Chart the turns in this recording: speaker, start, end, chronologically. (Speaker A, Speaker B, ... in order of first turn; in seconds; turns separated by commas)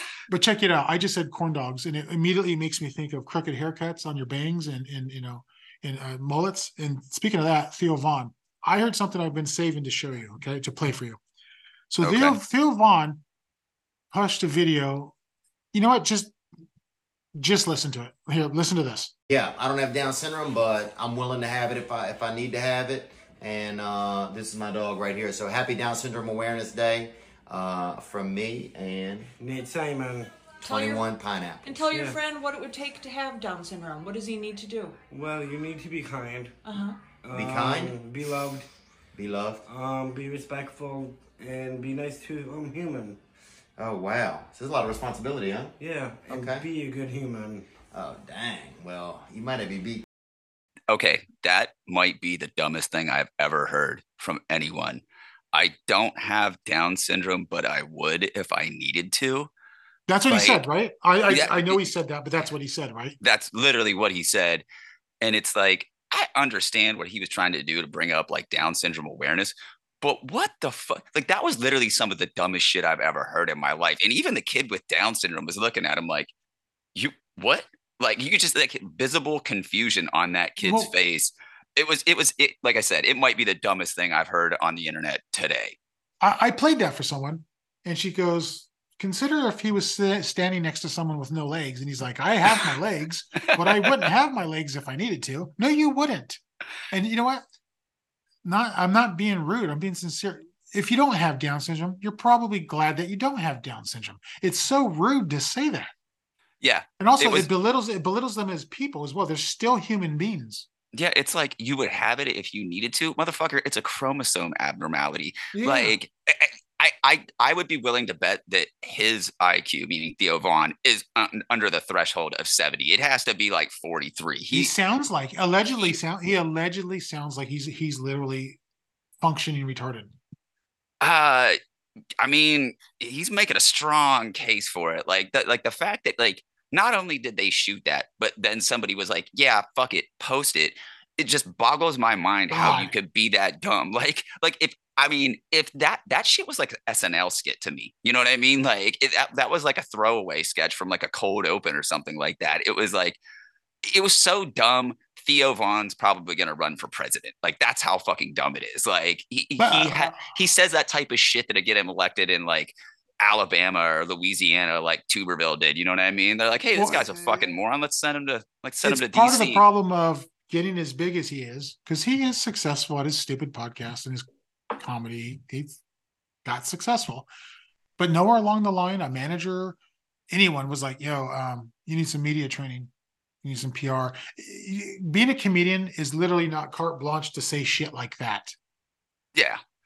Speaker A: 0.3-11.2, Speaker A: 11.9-13.2, Speaker B: 12.0-12.4, Speaker A: 14.1-15.1, Speaker A: 15.7-16.3, Speaker A: 17.4-19.1, Speaker C: 19.3-29.3, Speaker D: 29.4-30.3, Speaker E: 30.6-31.1, Speaker C: 30.7-31.8, Speaker E: 31.6-35.0, Speaker D: 31.8-32.2, Speaker D: 35.1-36.6, Speaker E: 36.6-37.0, Speaker D: 37.2-38.7, Speaker C: 37.3-38.0, Speaker C: 39.1-39.6, Speaker D: 39.7-43.2, Speaker C: 43.8-45.7, Speaker D: 45.8-47.7, Speaker C: 46.3-46.7, Speaker C: 47.9-50.0, Speaker B: 50.9-59.5, Speaker A: 60.1-63.2, Speaker B: 60.3-60.6, Speaker B: 61.3-61.8, Speaker B: 63.2-64.7, Speaker B: 65.2-76.3, Speaker B: 77.0-85.8, Speaker A: 80.6-80.9, Speaker A: 86.2-97.5, Speaker B: 93.6-94.1, Speaker A: 98.5-105.9, Speaker B: 106.6-107.5, Speaker A: 107.0-110.7, Speaker B: 110.9-124.7, Speaker A: 115.5-116.0, Speaker A: 124.5-128.6, Speaker A: 129.2-130.2, Speaker B: 131.0-131.6, Speaker B: 132.2-153.2, Speaker A: 142.5-142.9, Speaker B: 153.8-169.6, Speaker A: 159.6-160.3, Speaker A: 166.8-167.4, Speaker A: 168.8-175.8, Speaker A: 176.4-177.3, Speaker A: 178.0-179.8, Speaker A: 180.3-182.9, Speaker A: 183.4-188.6, Speaker B: 189.3-189.6